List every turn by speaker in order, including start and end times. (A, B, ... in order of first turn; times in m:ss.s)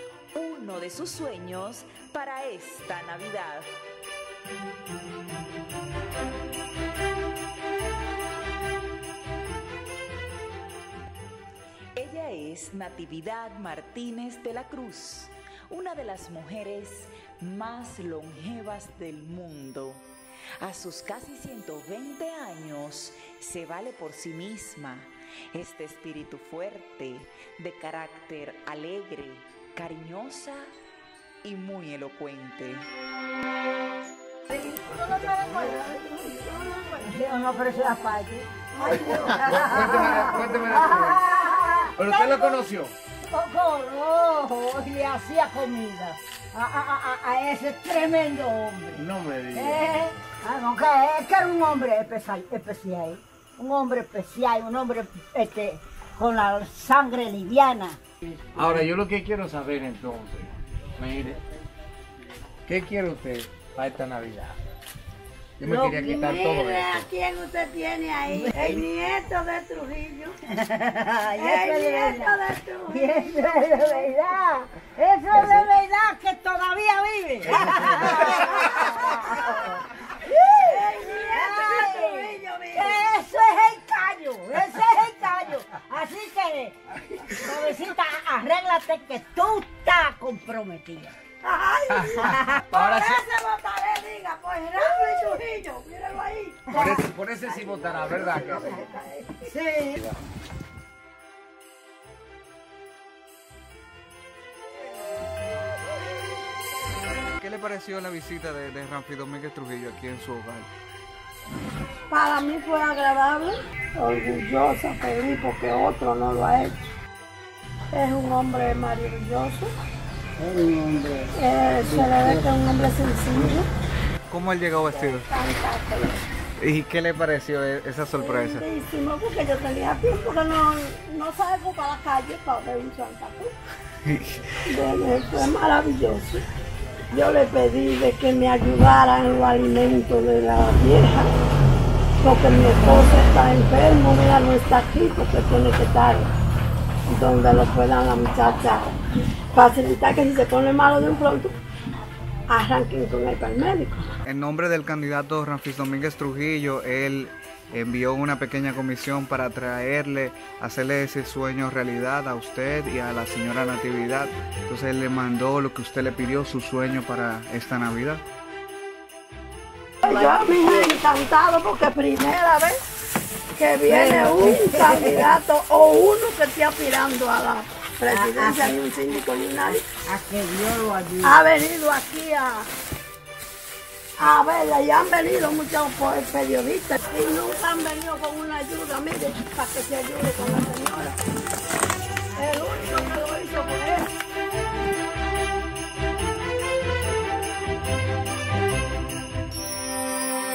0:00.3-0:03.7 A
0:12.0-0:20.0 A
0:20.6-0:30.7 A
0:31.4-0:32.9 A
0:34.5-0:35.5 B
0:35.3-0:36.9 C
0:36.8-0:38.5 B
0:38.7-0:40.5 C
0:39.0-0:42.5 B
0:39.4-0:41.3 D
0:42.0-0:42.9 D
0:43.3-0:58.0 B
0:48.9-0:49.9 D
0:58.5-1:01.4 D
1:02.7-1:04.6 D
1:05.6-1:07.0 D
1:05.6-1:10.4 C
1:08.3-1:08.8 B
1:10.5-1:31.1 B
1:11.4-1:13.2 C
1:20.6-1:23.0 C
1:31.4-1:39.5 C
1:31.9-1:33.2 D
1:36.7-1:38.8 D
1:39.4-1:40.1 B
1:47.4-1:50.7 E
1:52.1-1:56.9 C
1:57.9-1:59.7 C
2:00.4-2:02.5 B
2:01.3-2:03.7 C
2:04.3-2:05.3 E
2:04.8-2:06.2 C
2:06.6-2:08.6 E
2:08.1-2:13.5 C
2:14.0-2:14.4 E
2:14.7-2:16.4 C
2:17.1-2:21.3 C
2:22.2-2:26.3 C
2:27.1-2:28.8 C
2:29.5-2:31.5 C
2:32.5-2:34.0 C
2:34.2-2:48.2 E
2:50.0-2:52.8 C
2:53.6-2:59.8 C
2:53.8-2:55.4 B
2:58.1-2:58.8 B
3:00.0-3:01.4 B
3:01.2-3:02.7 C
3:04.2-3:11.2 C
3:12.3-3:14.1 C